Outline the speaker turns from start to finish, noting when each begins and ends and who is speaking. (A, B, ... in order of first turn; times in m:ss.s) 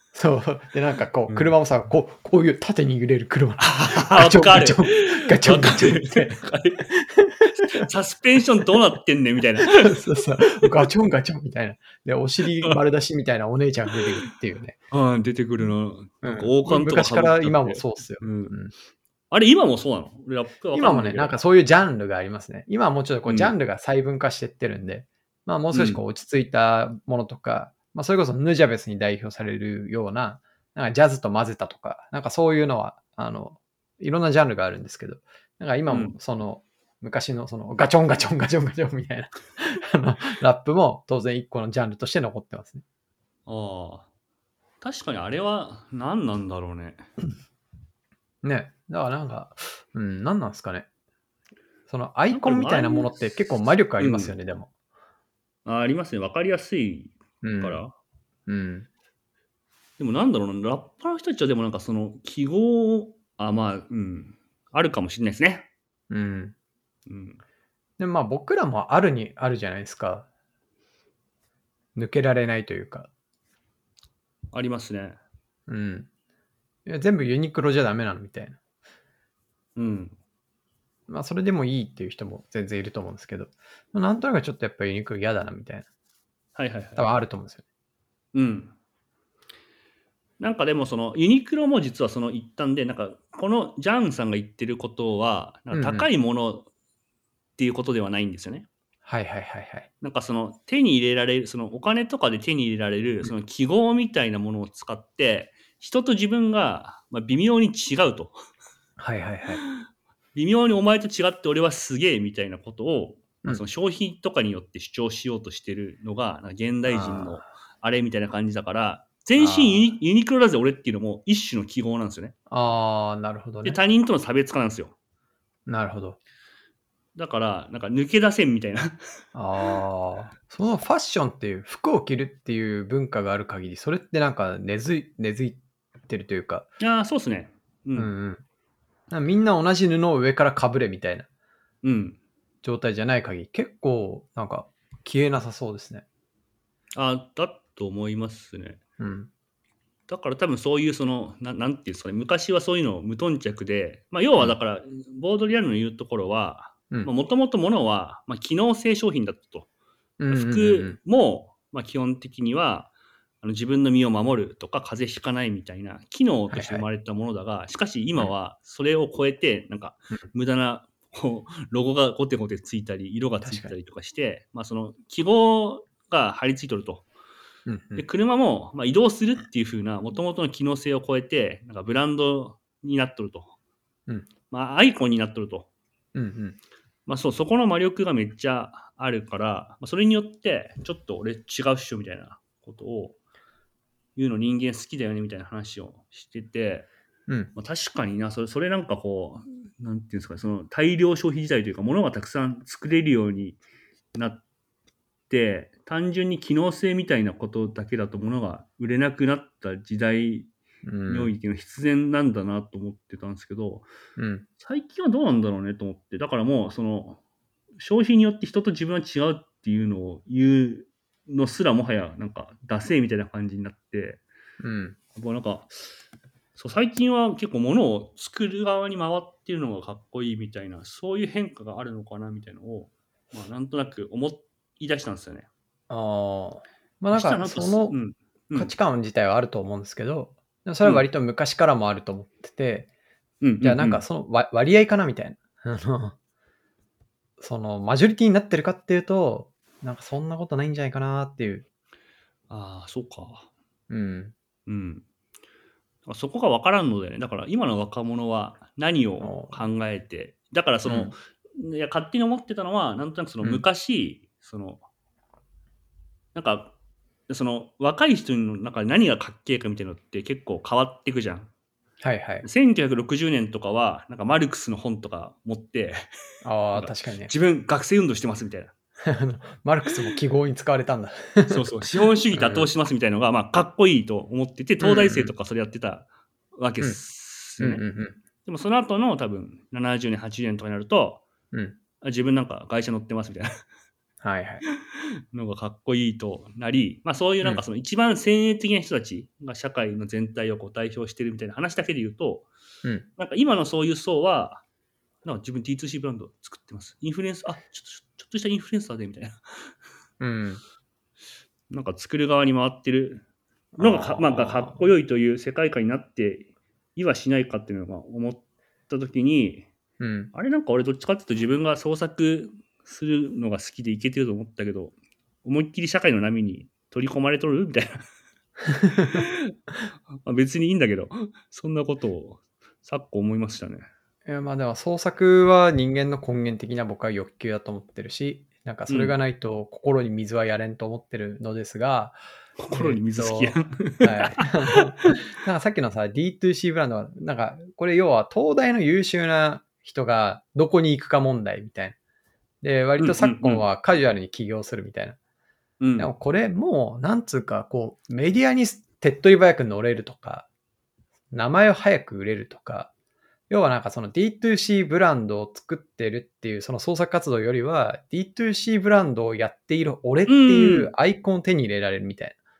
0:00.1-0:06.4 A
0:01.3-0:01.5 B
0:03.6-0:06.9 B
0:06.9-0:07.9 A
0:07.5-0:10.8 B
0:09.6-0:14.8 A
0:14.9-0:18.5 B
0:16.2-0:18.7 A
0:19.3-0:21.4 B
0:20.7-0:42.8 A
0:23.3-0:23.5 B
0:25.7-0:26.0 B
0:35.9-0:36.2 B
0:43.5-0:44.1 B
0:44.8-0:47.1 B
0:48.4-0:50.9 A
0:51.9-0:54.7 A
0:52.3-0:53.2 B
0:54.0-0:54.3 B
0:55.6-0:57.9 B
0:57.4-0:57.8 A
0:58.5-0:58.9 A
1:00.0-1:05.7 B
1:06.1-1:06.6 A
1:07.1-1:07.4 B
1:08.0-1:10.3 A
1:12.0-1:13.1 A
1:14.5-1:15.2 B
1:15.7-1:16.1 A
1:16.9-1:18.6 A
1:19.8-1:20.2 B
1:21.1-1:25.9 A
1:26.6-1:27.1 B
1:27.0-1:27.6 A
1:28.3-1:28.7 B
1:30.4-1:36.7 B
1:35.7-1:36.1 A
1:37.6-1:38.7 B
1:39.0-1:39.9 A
1:40.0-1:48.4 B
1:49.0-1:49.6 A
1:50.4-2:02.3 B
1:56.9-1:57.5 A
1:59.4-1:59.9 A
2:02.5-2:03.8 A
2:03.6-2:05.0 B
2:05.7-2:06.2 A
2:07.2-2:09.0 B
2:09.3-2:16.7 A
2:16.8-2:18.1 B
2:18.0-2:18.4 A
2:19.1-2:21.3 A
2:21.8-2:22.2 B
2:22.6-2:26.0 A
2:26.9-2:28.8 B
2:29.0-2:29.3 A
2:30.1-2:39.7 B
2:40.2-2:41.0 A
2:40.3-2:42.9 B
2:43.4-2:57.1 B
2:46.5-2:46.9 A
2:53.4-2:53.7 A
2:57.7-2:58.0 A
2:58.0-3:03.6 B
3:04.5-3:05.7 B
3:06.2-3:06.6 A
3:07.1-3:13.2 B
3:14.2-3:16.9 B
3:17.6-3:23.6 B
3:24.1-3:24.4 B
3:25.3-3:30.5 B
3:30.8-3:31.3 A
3:31.1-3:33.9 B
3:34.2-3:34.5 A
3:34.6-3:37.2 B
3:37.8-3:44.2 B
3:44.6-3:45.0 A
3:45.2-3:45.7 B
3:46.6-3:55.5 B
3:55.9-3:58.0 A
3:57.1-3:58.7 B
3:58.6-4:02.9 A
4:03.4-4:04.0 B
4:03.6-4:06.2 A
4:07.4-4:11.6 A
4:12.5-4:13.5 B
4:13.9-4:14.3 A
4:14.7-4:15.0 B
4:16.1-4:24.8 B
4:19.2-4:19.6 A
4:20.9-4:21.1 A
4:26.4-4:26.7 B
4:27.3-4:31.5 B
4:32.0-4:32.5 A
4:32.4-4:36.1 B
4:36.4-4:37.3 A
4:36.7-4:38.7 B
4:39.0-4:42.7 A
4:41.5-4:47.8 B
4:44.8-4:45.3 A
4:47.6-4:48.2 A
4:48.4-4:51.2 B
4:51.5-4:51.8 A
4:52.0-4:53.5 B
4:54.2-4:54.6 A
4:54.7-5:02.5 B
5:03.2-5:04.6 B
5:05.2-5:09.7 B
5:10.2-5:10.6 A
5:11.7-5:13.2 B
5:13.8-5:19.7 B
5:13.8-5:14.9 A
5:20.0-5:20.3 A
5:20.3-5:28.0 B
5:28.8-5:29.2 A
5:29.0-5:29.5 B
5:30.1-5:33.9 B
5:34.2-5:42.2 A
5:38.9-5:39.2 B
5:42.6-5:45.2 B
5:42.7-5:52.0 A
5:52.6-5:55.2 A
5:53.0-5:53.6 B
5:55.8-5:56.1 B
5:56.0-6:00.5 A
6:01.3-6:02.9 A
6:03.5-6:12.4 A
6:10.3-6:10.9 B